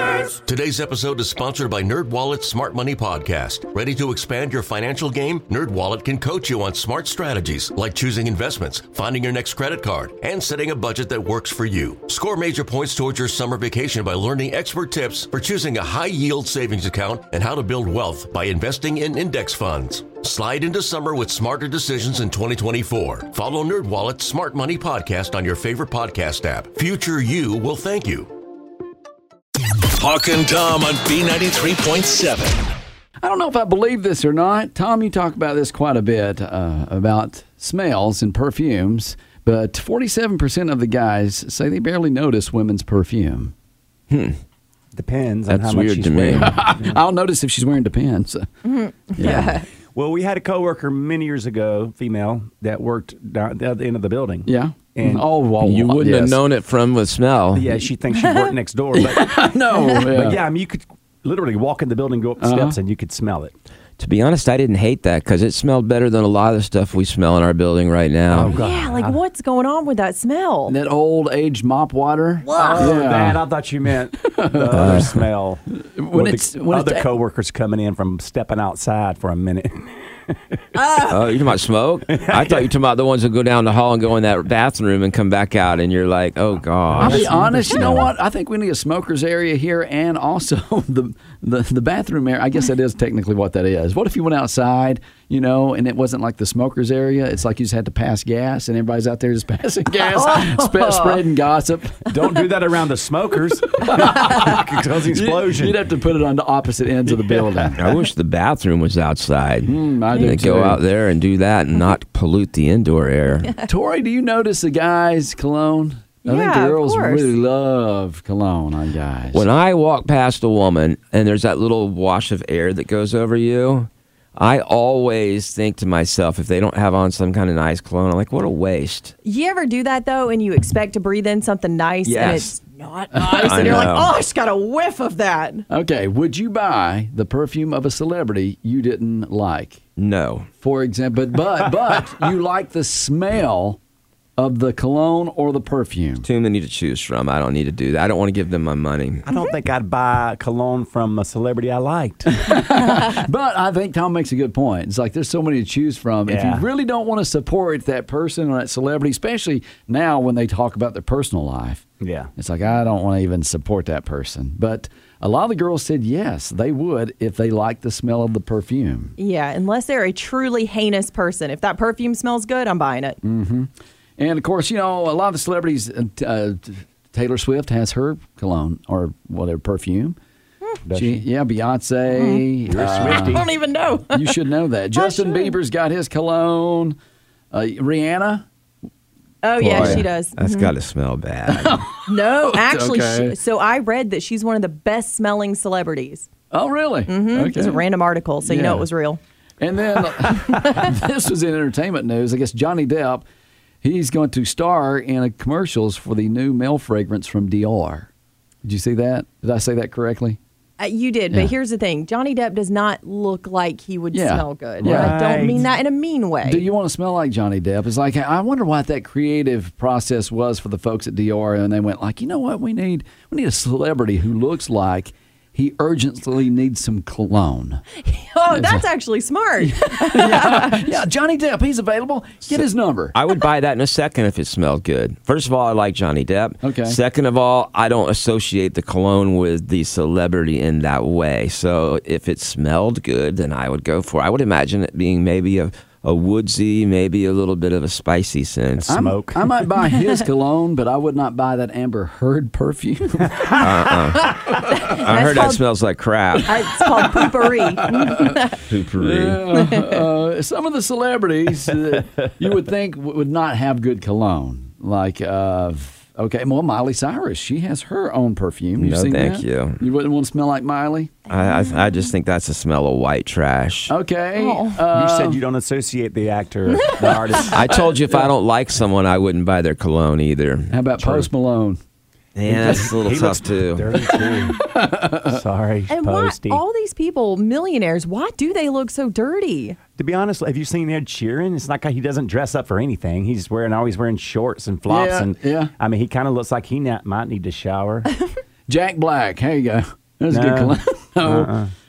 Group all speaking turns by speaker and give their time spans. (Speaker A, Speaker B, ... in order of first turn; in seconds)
Speaker A: 0.1-28.3
Speaker B: 29.9-32.7
Speaker C: 33.2-43.5, 46.4-48.5, 49.2-49.5, 54.5-56.4, 59.0-60.4, 62.4-62.8, 70.7-73.4, 74.2-75.2, 76.0-77.1, 87.0-102.0, 103.8-107.8, 109.6-110.8, 113.7-119.4, 133.2-133.9, 135.7-139.8, 140.6-143.8, 144.4-146.3, 152.3-169.2, 173.2-180.2, 180.9-183.4, 184.1-187.0, 187.5-188.5, 189.6-190.1, 191.5-193.4, 196.5-197.8, 198.4-198.9, 199.6-203.3, 203.8-208.1, 208.6-210.4, 214.1-215.2, 216.4-227.8, 228.5-228.8, 229.6-233.2, 236.6-237.0, 248.9-253.6, 257.4-258.4, 259.0-271.1, 273.9-275.4, 280.7-281.8, 284.2-285.4, 294.9-295.7, 298.7-301.5
Speaker D: 44.1-44.4, 45.5-46.7, 55.6-57.8, 64.0-68.6, 74.7-75.1, 81.1-88.0, 107.8-113.5, 119.3-129.1, 132.1-132.6, 133.2-134.2, 140.0-140.5, 146.2-149.2, 189.7-191.8, 233.1-248.9, 253.6-256.5, 258.7-259.4, 268.8-269.8, 271.3-273.9, 277.5-281.2, 282.4-283.9
Speaker E: 44.9-47.0, 49.2-55.3, 57.5-63.5, 68.3-69.2, 72.6-80.4, 82.1-82.7, 86.9-88.1, 102.1-105.8, 107.2-107.7, 149.2-152.3, 156.3-156.7, 162.0-162.3, 180.9-181.3, 182.7-183.5, 214.8-215.7, 248.9-249.5, 274.9-277.8, 282.4-284.7, 285.3-286.6, 290.0-298.1, 300.3-301.7
Speaker F: 48.6-49.6, 58.1-58.5, 68.5-70.8, 72.4-72.9, 80.8-81.2, 100.0-101.2, 116.2-117.3, 129.2-135.7, 169.2-173.2, 182.2-184.3, 185.0-185.6, 189.4-190.7, 192.1-196.3, 197.1-199.2, 200.5-200.8, 210.8-216.7, 228.0-230.8, 254.5-255.6, 256.4-258.6, 259.6-260.0, 271.3-272.1, 274.4-274.8, 285.9-289.8